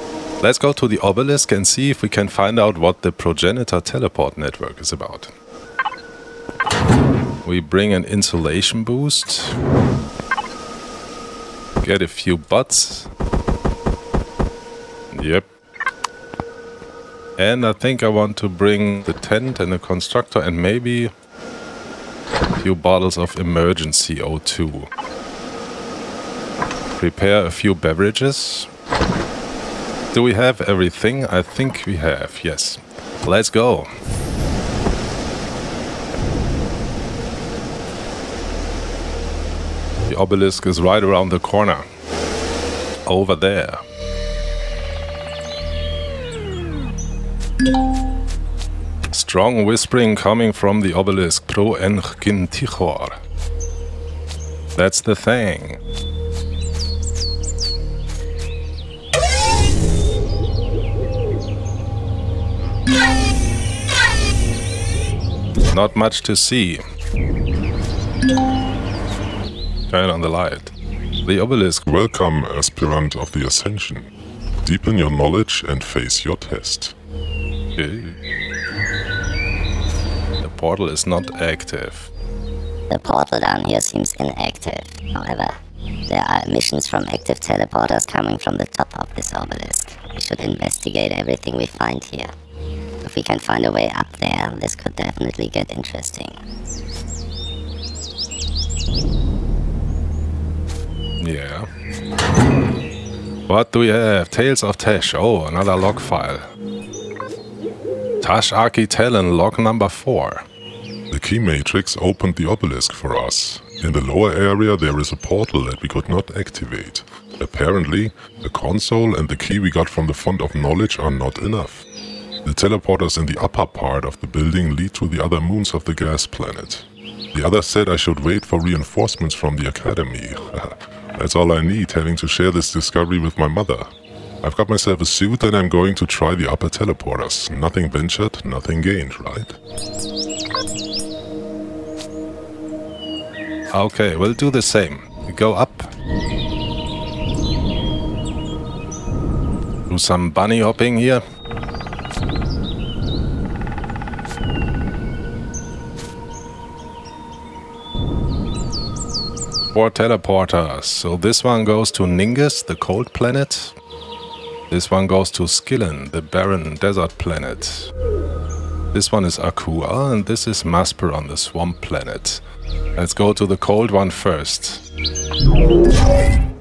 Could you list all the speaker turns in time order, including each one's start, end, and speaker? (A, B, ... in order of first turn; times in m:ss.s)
0:00.4-0:05.3 A
0:07.4-0:09.6 A
0:11.8-0:13.1 A
0:15.1-0:15.5 A
0:17.4-0:21.1 A
0:22.6-0:24.9 A
0:27.0-0:28.7 A
0:30.1-0:33.9 A
0:40.1-0:41.8 A
0:43.1-0:43.8 A
0:49.1-0:53.2 A
0:54.8-0:55.8 A
1:05.7-1:06.8 A
1:09.9-1:11.8 A
1:11.9-1:14.1 B
1:14.6-1:17.0 B
1:17.8-1:18.2 A
1:20.4-1:22.1 A
1:22.9-1:25.6 C
1:26.1-1:32.3 C
1:33.0-1:36.4 C
1:41.2-1:41.7 A
1:43.5-1:46.5 A
1:48.2-1:50.5 A
1:51.1-2:01.9 B
2:02.4-2:13.9 B
2:14.4-2:19.6 B
2:23.7-2:25.9 A
2:29.9-2:31.2 A
2:39.7-2:43.8 A
2:44.7-2:47.9 A
2:48.9-2:52.4 A
2:53.0-2:54.8 A